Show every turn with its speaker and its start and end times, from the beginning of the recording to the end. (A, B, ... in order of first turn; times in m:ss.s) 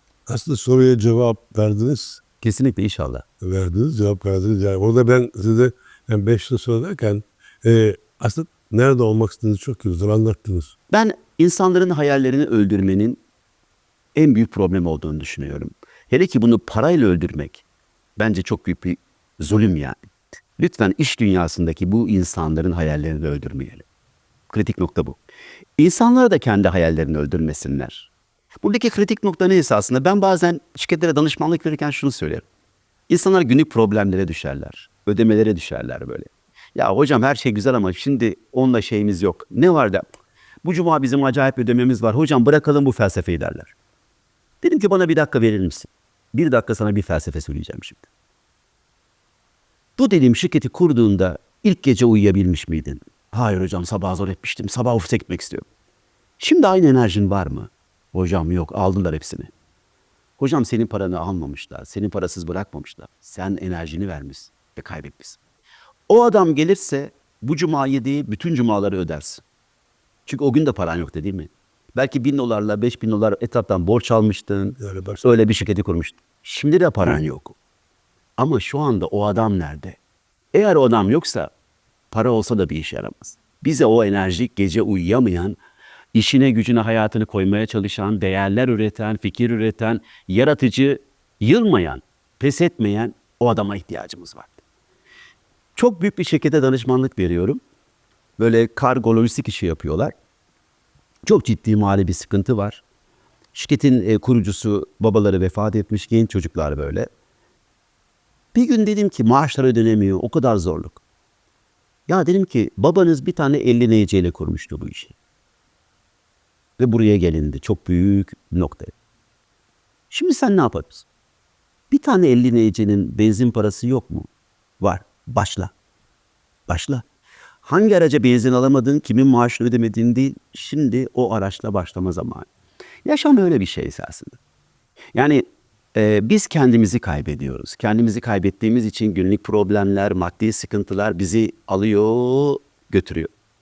0:00.3-0:02.2 A
0:02.4-0:03.2 B
0:03.4-0:10.7 A
0:10.9-0:13.2 B
0:14.1-0:17.6 B
0:18.2-0:20.0 B
0:20.6-0:23.8 B
0:24.5-0:25.2 B
0:25.8-0:28.1 B
0:28.6-0:32.4 B
0:33.1-0:40.0 B
0:40.6-0:43.7 B
0:44.6-0:48.1 B
0:50.0-0:55.6 B
0:56.4-0:59.5 B
1:00.4-1:05.4 B
1:06.1-1:09.4 B
1:10.2-1:17.6 B
1:14.8-1:15.2 A
1:18.4-1:20.0 B
1:20.5-1:21.5 B
1:22.1-1:25.6 B
1:26.1-1:34.6 B
1:35.8-1:37.6 B
1:38.4-1:40.1 B
1:41.2-1:42.8 B
1:43.5-1:47.1 B
1:48.5-1:51.0 B
1:52.1-1:55.2 B
1:56.8-1:58.9 B
2:00.1-2:01.0 B
2:01.9-2:04.3 B
2:04.8-2:05.7 B
2:06.7-2:07.0 B
2:07.6-2:12.5 B
2:13.0-2:14.4 B
2:15.1-2:23.3 B